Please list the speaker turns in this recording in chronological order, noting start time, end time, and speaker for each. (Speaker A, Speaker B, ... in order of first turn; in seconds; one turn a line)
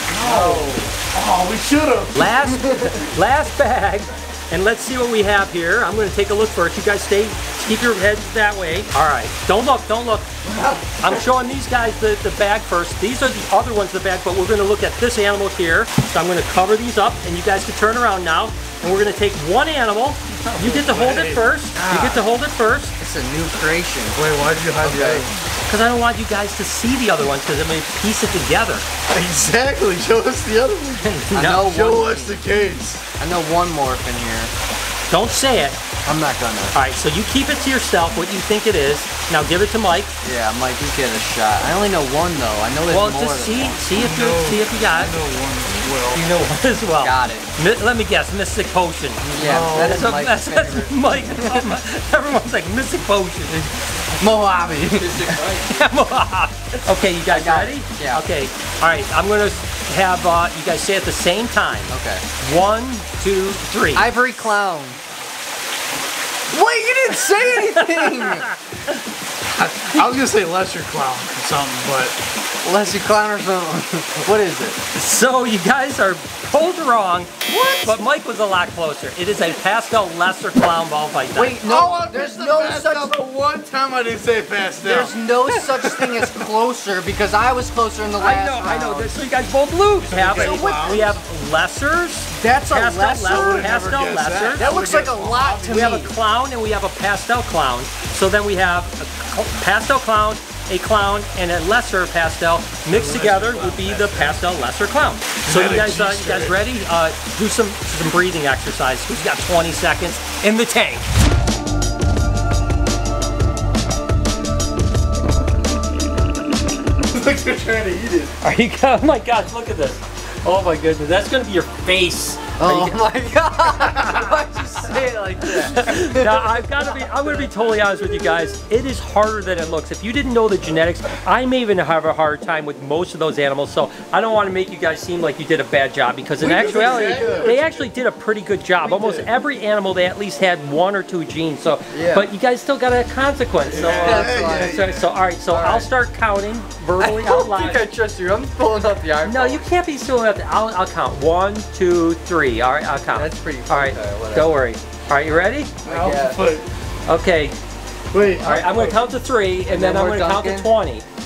Speaker A: 0.1-0.9
Speaker B: 0.2-3.0
Speaker C: 2.1-10.3
Speaker B: 10.5-11.2
Speaker C: 11.0-22.9
Speaker B: 20.6-21.5
Speaker A: 21.8-22.2
Speaker A: 23.0-24.2
Speaker B: 24.1-25.4
Speaker A: 24.8-25.2
Speaker C: 25.7-28.8
Speaker B: 29.1-33.0
Speaker C: 31.2-31.7
Speaker A: 31.3-32.4
Speaker A: 33.2-34.5
Speaker C: 35.1-35.8
Speaker A: 36.0-36.8
Speaker C: 36.7-40.1
Speaker A: 40.2-43.8
Speaker C: 42.9-45.1
Speaker B: 43.9-46.3
Speaker C: 46.1-53.6
Speaker A: 47.0-47.5
Speaker B: 49.3-50.2
Speaker A: 49.3-51.8
Speaker A: 53.5-55.9
Speaker C: 55.7-64.1
Speaker A: 57.2-58.2
Speaker A: 61.9-62.2
Speaker A: 63.9-65.0
Speaker A: 66.5-68.5
Speaker C: 67.7-68.9
Speaker B: 69.5-72.2
Speaker A: 72.6-74.8
Speaker C: 74.9-81.7
Speaker A: 77.5-78.0
Speaker A: 81.3-83.1
Speaker B: 81.6-86.4
Speaker A: 84.8-89.1
Speaker C: 88.2-94.8
Speaker B: 90.0-91.1
Speaker A: 90.3-91.2
Speaker A: 92.3-93.8
Speaker B: 93.2-96.0
Speaker A: 94.6-96.1
Speaker C: 95.6-111.1
Speaker B: 102.9-104.5
Speaker B: 105.4-106.7
Speaker B: 117.0-118.3
Speaker C: 118.4-123.0
Speaker A: 122.6-127.0
Speaker C: 125.7-147.9
Speaker B: 136.4-137.6
Speaker A: 136.8-137.5
Speaker B: 138.9-139.3
Speaker A: 141.9-142.3
Speaker B: 143.6-145.1
Speaker A: 143.8-144.9
Speaker A: 145.5-145.9
Speaker A: 147.0-149.6
Speaker C: 149.2-155.7
Speaker A: 153.1-154.6
Speaker A: 155.8-156.5
Speaker B: 155.8-156.7
Speaker C: 157.1-157.6
Speaker B: 158.1-159.1
Speaker C: 158.4-161.0
Speaker A: 159.7-160.7